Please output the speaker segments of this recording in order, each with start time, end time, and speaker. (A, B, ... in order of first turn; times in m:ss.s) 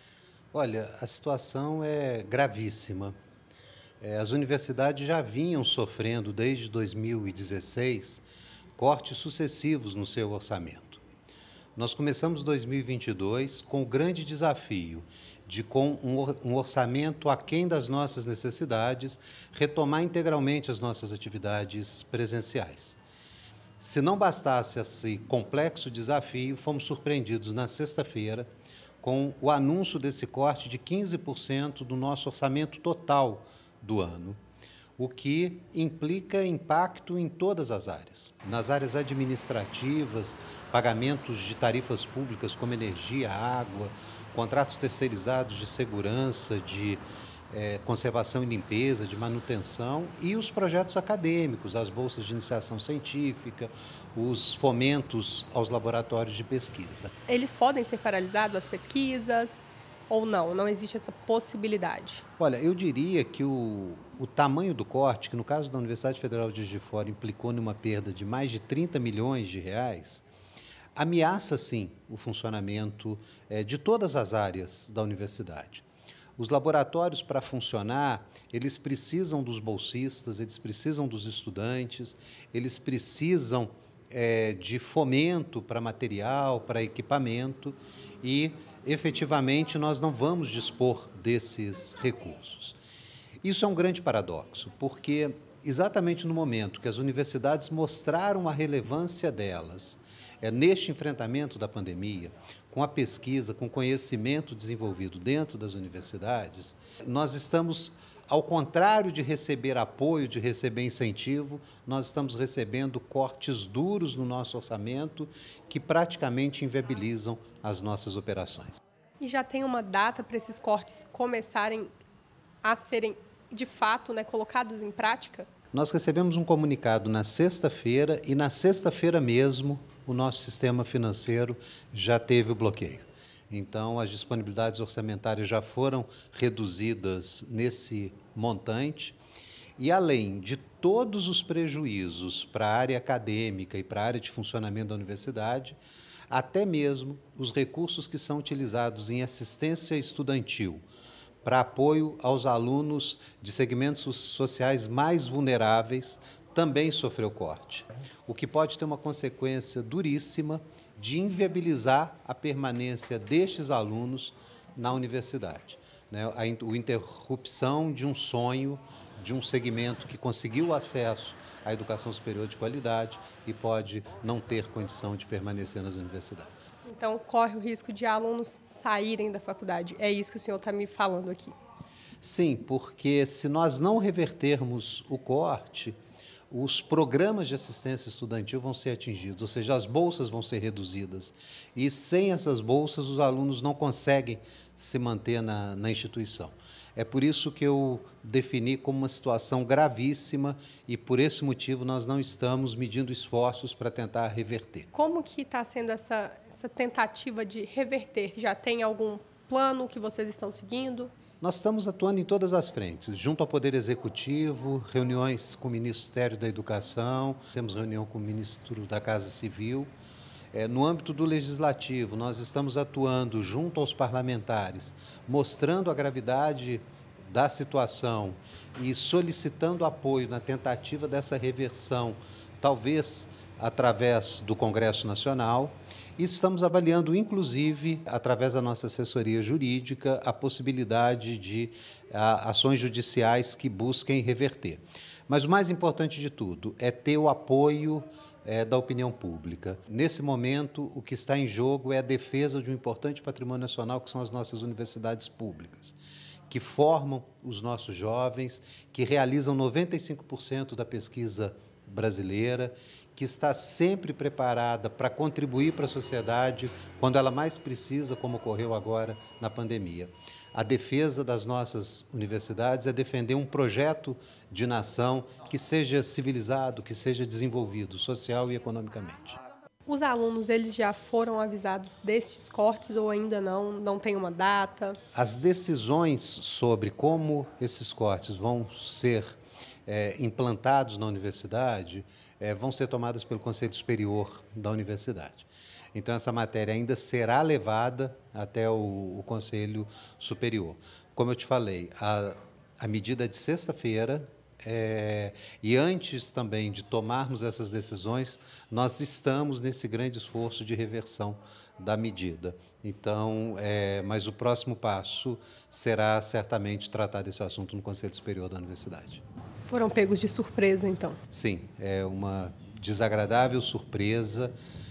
0:00.5-0:03.1 A
0:04.0-0:08.2 A
0:08.8-0:11.0 A
0:11.8-0:23.0 A
0:23.8-0:28.5 A
0:29.0-0:34.4 A
0:35.0-0:57.1 A
0:57.3-1:02.2 B
1:02.4-1:10.2 A
1:11.0-1:15.8 A
1:16.4-1:32.8 A
1:33.4-1:58.8 A
1:59.2-2:01.9 B
2:02.6-2:05.5 B
2:05.7-2:19.2 A
2:19.8-2:30.8 A
2:31.4-2:56.8 A
2:56.8-3:01.5 B
3:02.2-3:06.0 A
3:06.5-3:24.9 A
3:24.9-3:31.1 B
3:31.4-3:39.9 A
3:40.5-4:16.0 A
4:16.5-4:39.4 A
4:39.9-4:45.0 B
4:45.1-5:19.2 A
5:19.7-5:21.2 B
5:21.3-5:24.5 A